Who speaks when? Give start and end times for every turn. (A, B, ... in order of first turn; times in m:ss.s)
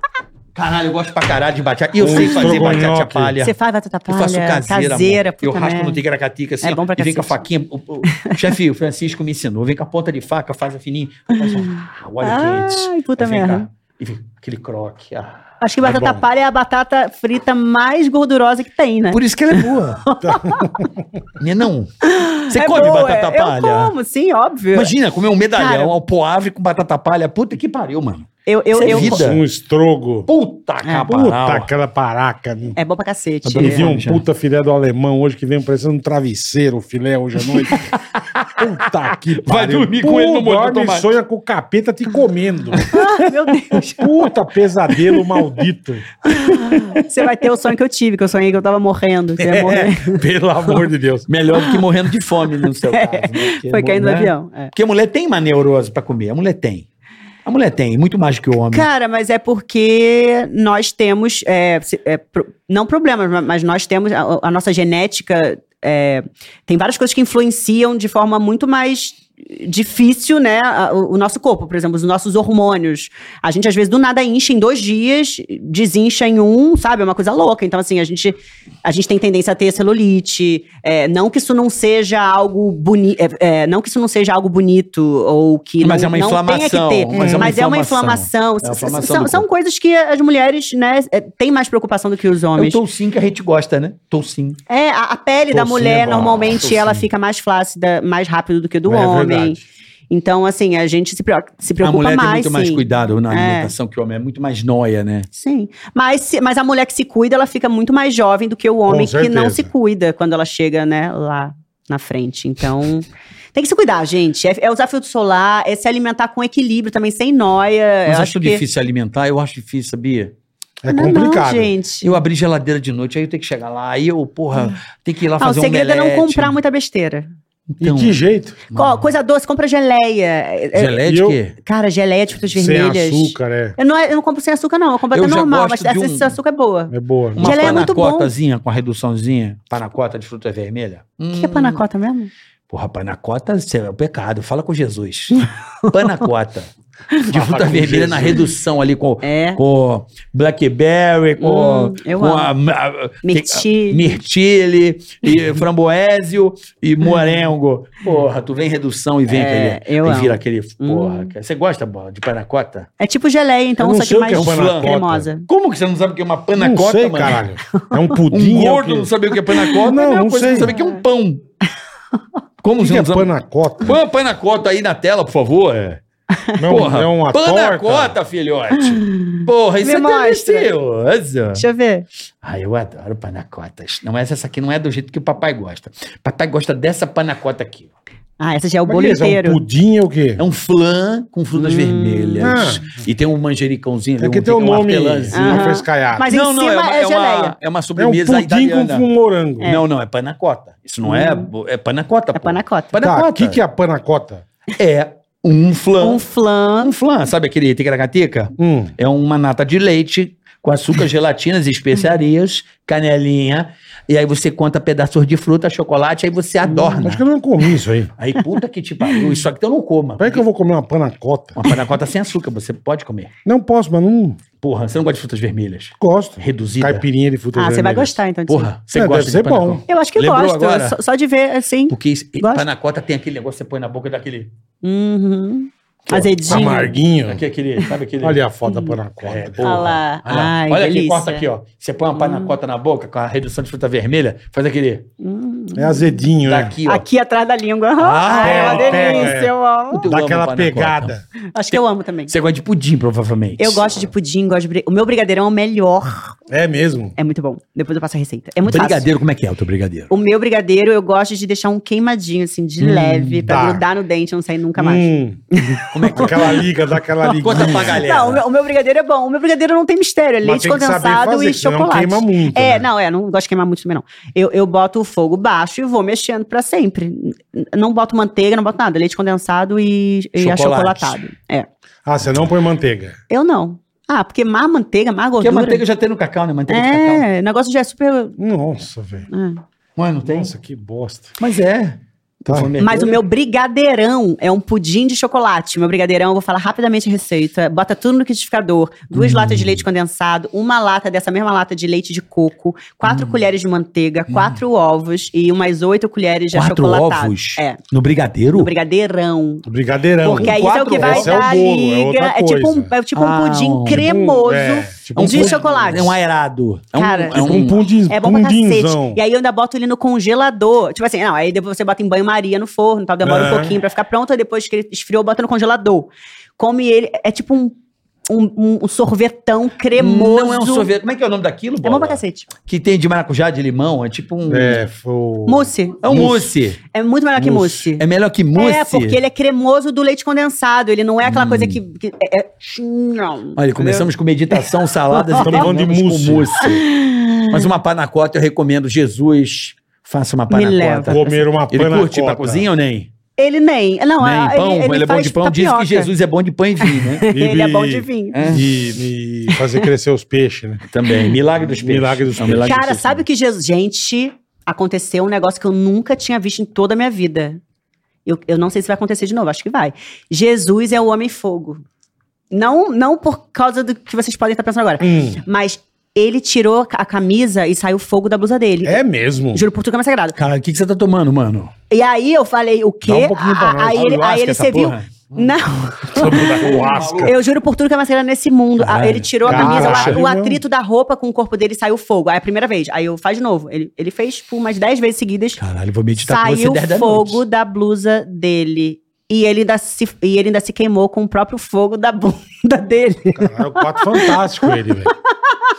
0:00.5-0:03.5 A
0:02.0-0:03.4 B
0:02.1-0:02.6 C
0:03.4-0:06.0 C
0:04.1-0:15.4 A
0:06.6-0:07.4 C
0:08.1-0:08.4 C
0:11.3-0:13.7 C
0:15.6-0:20.8 C
0:15.8-0:16.2 B
0:19.1-0:20.0 A
0:20.2-0:20.9 B
0:21.4-0:21.9 A
0:22.0-0:24.9 C
0:22.5-0:23.9 A
0:24.7-0:29.4 A
0:25.6-0:25.9 C
0:28.4-0:29.3 C
0:28.9-0:30.3 B
0:30.3-0:31.7 A
0:30.8-0:31.1 C
0:31.0-0:32.8 B
0:32.8-0:33.9 C
0:33.4-0:34.2 A
0:33.5-0:37.9 B
0:37.5-0:38.8 A
0:38.6-0:42.9 B
0:39.4-0:41.1 A
0:42.8-0:43.1 A
0:42.9-0:44.0 C
0:43.9-0:46.1 B
0:46.3-0:50.2 C
0:49.4-0:51.3 B
0:51.3-0:56.8 A
0:51.5-0:51.8 C
0:52.6-0:54.7 C
0:57.4-0:58.9 A
0:58.7-1:32.8 C
1:25.8-1:29.4 A
1:27.1-1:27.5 B
1:32.6-1:34.6 A
1:34.7-1:43.7 C
1:35.5-1:36.5 B
1:35.7-1:37.0 A
1:38.8-1:39.6 B
1:41.8-1:45.3 A
1:45.3-1:58.6 C
1:48.9-1:49.7 B
1:58.0-2:00.3 A
2:00.8-2:01.7 B
2:00.9-2:02.2 C
2:02.0-2:06.6 A
2:05.4-2:07.3 C
2:07.7-2:08.2 A
2:07.8-2:08.6 B
2:08.7-2:09.1 A
2:08.7-2:11.0 C
2:10.7-2:11.6 A
2:11.0-2:11.4 B
2:11.6-2:18.3 C
2:12.5-2:13.8 B
2:15.1-2:16.4 A
2:16.9-2:17.8 B
2:17.4-2:21.8 A
2:21.4-2:22.3 C
2:22.7-2:26.7 A
2:25.4-2:26.2 C
2:27.2-2:42.9 A
2:27.3-2:28.4 B
2:29.2-2:29.6 C
2:31.4-2:32.5 C
2:33.2-2:34.2 C
2:39.3-2:41.3 C
2:43.0-2:45.5 C
2:43.8-2:45.3 B
2:44.3-2:44.9 A
2:45.4-2:47.4 A
2:46.6-2:49.1 B
2:48.3-2:51.4 A
2:49.5-2:49.8 C
2:49.7-2:50.7 B
2:52.6-2:53.3 A
2:52.8-2:54.0 B
2:53.8-2:56.0 A
2:56.6-2:58.2 B
2:56.7-3:01.6 A
2:58.8-3:00.7 C
3:01.5-3:02.0 C
3:02.4-3:07.9 A
3:08.4-3:09.6 C
3:08.9-3:10.4 B
3:10.4-3:15.7 A
3:11.6-3:12.9 C
3:12.4-3:12.8 B
3:14.2-3:16.3 B
3:15.3-3:17.5 C
3:16.3-3:19.1 A
3:18.0-3:19.8 B
3:19.6-3:23.6 A
3:21.0-3:21.5 C
3:22.3-3:22.9 C
3:23.0-3:24.4 B
3:24.8-3:26.2 A
3:26.0-3:26.9 C
3:26.8-3:37.2 A
3:28.6-3:28.9 B
3:36.6-3:37.0 C
3:37.0-3:38.1 B
3:38.2-3:40.4 A
3:39.1-3:39.4 C
3:40.2-3:41.6 B
3:41.6-3:43.3 A
3:43.4-3:44.4 B
3:44.6-3:47.0 A
3:46.0-3:48.2 B
3:47.6-3:48.7 C
3:48.5-3:51.0 A
3:48.9-3:49.8 B
3:49.9-3:52.6 C
3:51.9-3:54.5 A
3:54.8-3:57.0 C
3:56.1-3:58.4 A
3:56.5-3:57.4 B
3:58.2-3:59.8 B
3:58.6-3:59.0 C
3:59.2-4:05.0 A
3:59.6-4:01.4 C
4:02.2-4:02.6 C
4:05.2-4:06.2 C
4:05.7-4:06.8 B
4:06.4-4:07.0 A
4:06.8-4:10.1 C
4:08.0-4:09.4 A
4:08.3-4:11.2 B
4:09.9-4:11.2 A
4:11.5-4:12.3 C
4:11.7-4:14.0 A
4:13.6-4:16.3 C
4:16.5-4:17.1 B
4:17.2-4:19.1 C
4:18.6-4:20.1 A
4:20.1-4:26.6 C
4:22.8-4:23.4 A
4:23.4-4:23.8 B
4:24.8-4:25.4 B
4:25.9-4:26.7 A
4:26.1-4:28.1 B
4:27.2-4:28.4 A
4:27.5-4:41.7 C
4:30.4-4:32.9 B
4:40.4-4:41.2 A
4:42.0-4:43.2 B
4:43.3-4:45.8 C
4:45.4-4:47.2 A
4:46.7-4:48.4 C
4:48.4-4:49.3 B
4:49.3-4:49.6 C
4:50.0-4:50.5 A
4:50.2-4:51.3 B
4:51.4-4:53.2 A
4:52.8-5:07.8 C
4:59.1-4:59.8 A
5:03.1-5:03.3 A
5:04.3-5:04.6 A
5:06.5-5:08.7 A
5:08.5-5:09.6 C
5:09.6-5:12.9 B
5:10.2-5:11.4 A
5:10.4-5:16.1 C
5:13.1-5:14.1 A
5:13.8-5:16.1 B
5:15.2-5:17.8 A
5:16.9-5:27.8 C
5:17.3-5:19.2 B
5:23.2-5:23.8 B
5:28.3-5:30.9 C
5:29.9-5:34.8 A
5:31.8-5:32.5 C
5:34.5-5:36.5 B
5:35.5-5:36.0 C
5:36.0-5:36.8 A
5:36.9-5:38.0 C
5:37.4-5:39.2 A
5:38.6-5:45.6 C
5:41.2-5:41.8 A
5:43.6-5:46.9 A
5:45.4-5:46.5 B
5:46.6-5:47.7 C
5:47.5-5:53.1 A
5:50.5-5:51.4 C
5:51.0-5:52.6 B
5:53.4-5:56.1 C
5:54.2-5:57.3 A
5:56.8-5:58.6 C
5:57.3-6:00.8 B
5:58.3-5:58.6 A
5:59.5-5:59.8 C
6:00.9-6:03.2 A
6:01.8-6:02.8 B
6:02.6-6:07.6 C
6:08.2-6:11.8 C
6:12.5-6:19.0 C
6:15.0-6:15.4 B
6:18.8-6:19.6 B
6:19.5-6:20.4 C
6:20.3-6:21.7 A
6:21.9-6:35.6 C
6:23.0-6:24.1 B
6:23.9-6:25.6 A
6:26.1-6:27.3 B
6:26.1-6:27.4 A
6:28.8-6:30.2 A
6:29.4-6:30.6 B
6:35.6-6:37.4 A
6:36.2-6:44.7 C
6:43.4-6:45.1 B